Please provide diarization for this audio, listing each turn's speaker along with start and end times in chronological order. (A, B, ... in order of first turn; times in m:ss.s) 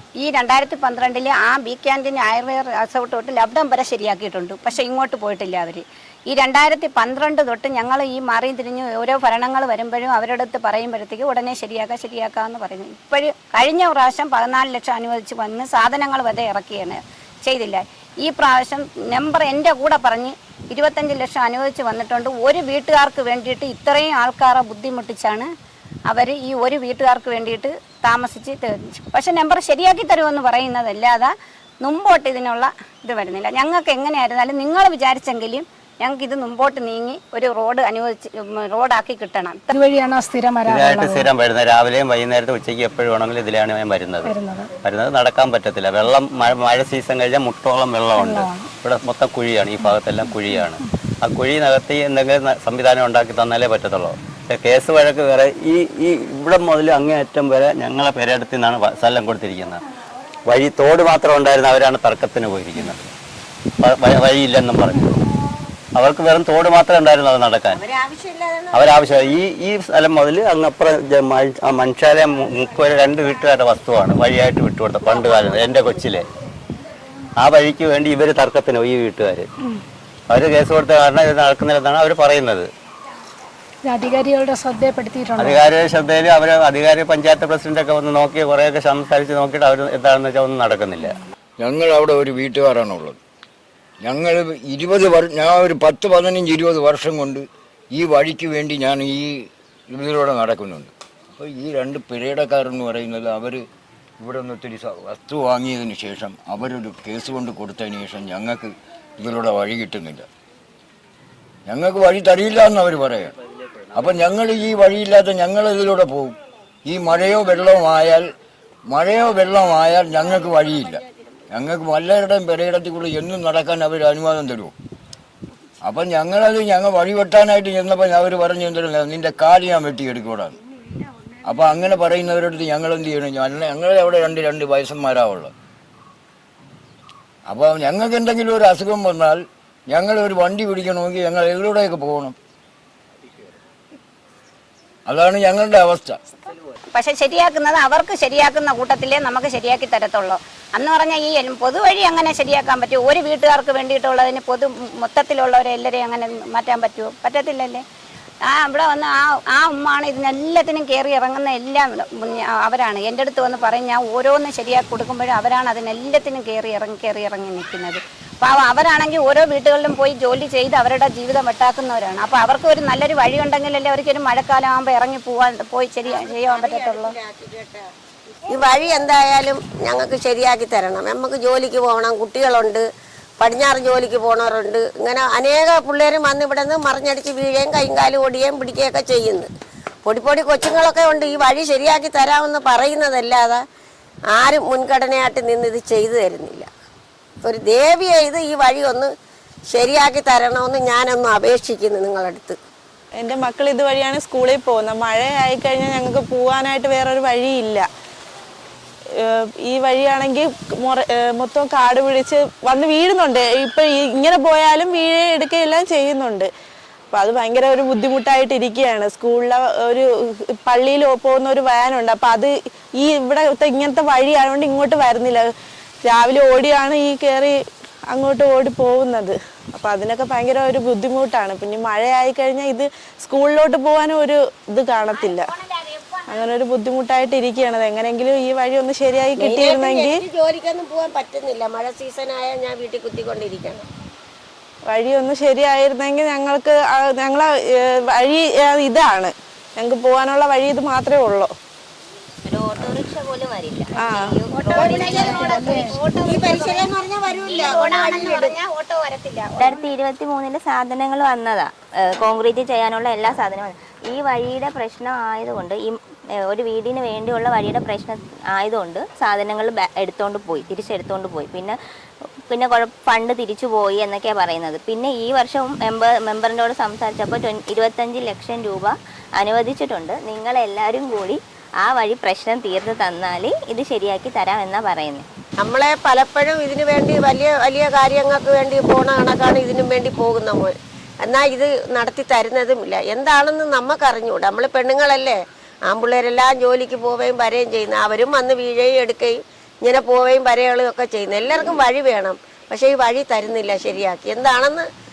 0:00.2-0:25.5 A
0:26.1-0:39.6 A
0:39.7-0:41.3 B
0:40.7-0:59.8 C
0:44.2-0:44.7 B
0:48.2-0:48.7 B
1:00.5-1:03.1 C
1:03.8-1:05.2 C
1:06.0-1:07.8 C
1:07.7-1:09.1 D
1:08.7-1:16.2 C
1:17.4-1:19.5 C
1:20.3-1:22.7 C
1:23.8-1:25.6 B
1:25.4-1:31.2 C
1:31.6-1:33.2 E
1:34.0-1:43.6 E
1:44.2-1:50.3 E
1:51.7-1:53.4 E
1:53.9-1:58.3 E
1:58.9-2:04.7 E
2:05.8-2:10.6 E
2:11.4-2:15.5 E
2:17.5-2:22.4 E
2:25.1-2:26.2 E
2:26.9-2:37.8 A
2:38.5-2:57.1 A
2:56.1-2:57.9 D
2:58.5-3:02.8 D
3:03.4-3:09.5 D
3:10.0-3:13.6 D
3:14.3-3:16.7 D
3:17.4-3:19.1 D
3:19.7-3:22.6 D
3:23.2-3:27.9 F
3:29.2-3:36.5 F
3:37.1-3:45.5 F
3:46.0-3:47.6 F
3:48.1-3:55.6 F
3:56.3-4:00.2 F
3:59.4-4:03.9 D
4:04.9-4:11.5 F
4:12.5-4:15.8 G
4:14.0-4:14.4 F
4:14.5-4:16.9 A
4:14.8-4:18.6 D
4:15.6-4:15.9 B
4:17.4-4:19.9 A
4:19.6-4:26.0 G
4:26.5-4:31.8 G
4:32.5-4:45.2 G
4:45.6-5:04.9 D